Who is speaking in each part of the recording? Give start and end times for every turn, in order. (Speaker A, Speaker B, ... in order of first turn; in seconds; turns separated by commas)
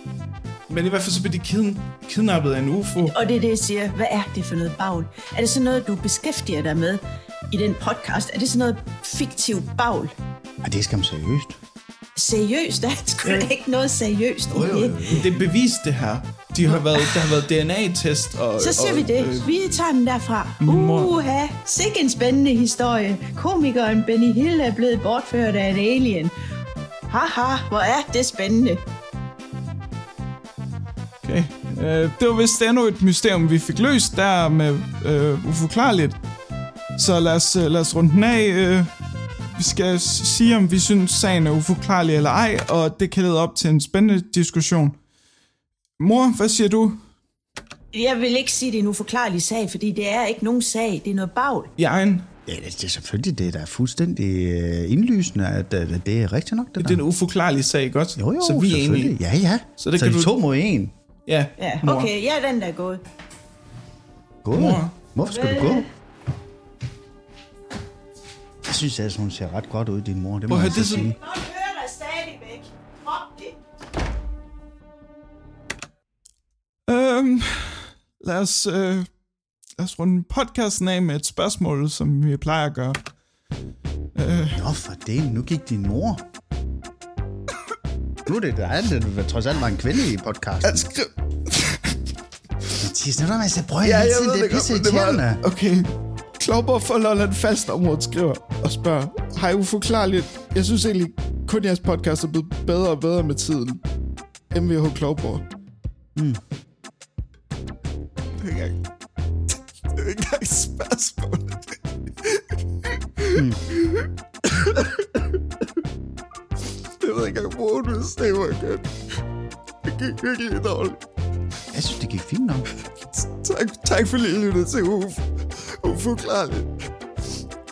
Speaker A: 0.7-3.1, Speaker B: 3.0-10.1, Speaker C: 10.6-11.6, Speaker B: 12.2-15.2, Speaker A: 13.2-13.5, Speaker C: 14.5-15.5, Speaker A: 15.1-19.8, Speaker B: 16.9-17.3, Speaker B: 18.6-26.3, Speaker A: 20.6-21.2, Speaker B: 27.1-28.8, Speaker A: 31.2-36.2, Speaker A: 37.0-38.9, Speaker A: 39.5-45.0, Speaker A: 46.0-47.0, Speaker B: 47.9-51.7, Speaker A: 51.8-52.3, Speaker C: 52.5-57.0, Speaker A: 56.8-59.2, Speaker C: 58.2-60.9, Speaker A: 59.8-60.3, Speaker A: 61.3-62.1, Speaker B: 61.6-63.0, Speaker C: 64.4-65.9, Speaker A: 64.5-65.0, Speaker B: 65.2-65.9, Speaker C: 68.6-71.2, Speaker A: 70.5-71.1, Speaker B: 70.9-73.6, Speaker A: 76.9-79.1, Speaker A: 79.8-83.0, Speaker A: 84.2-84.6, Speaker C: 84.5-86.2, Speaker C: 88.3-90.8, Speaker A: 90.6-92.0, Speaker C: 92.8-95.4, Speaker A: 93.8-103.8, Speaker A: 104.5-105.4, Speaker C: 106.2-106.4, Speaker A: 108.4-108.8, Speaker A: 109.9-115.3, Speaker C: 113.3-113.6, Speaker A: 117.0-118.9, Speaker A: 119.8-121.0, Speaker C: 121.7-122.7, Speaker A: 123.1-126.7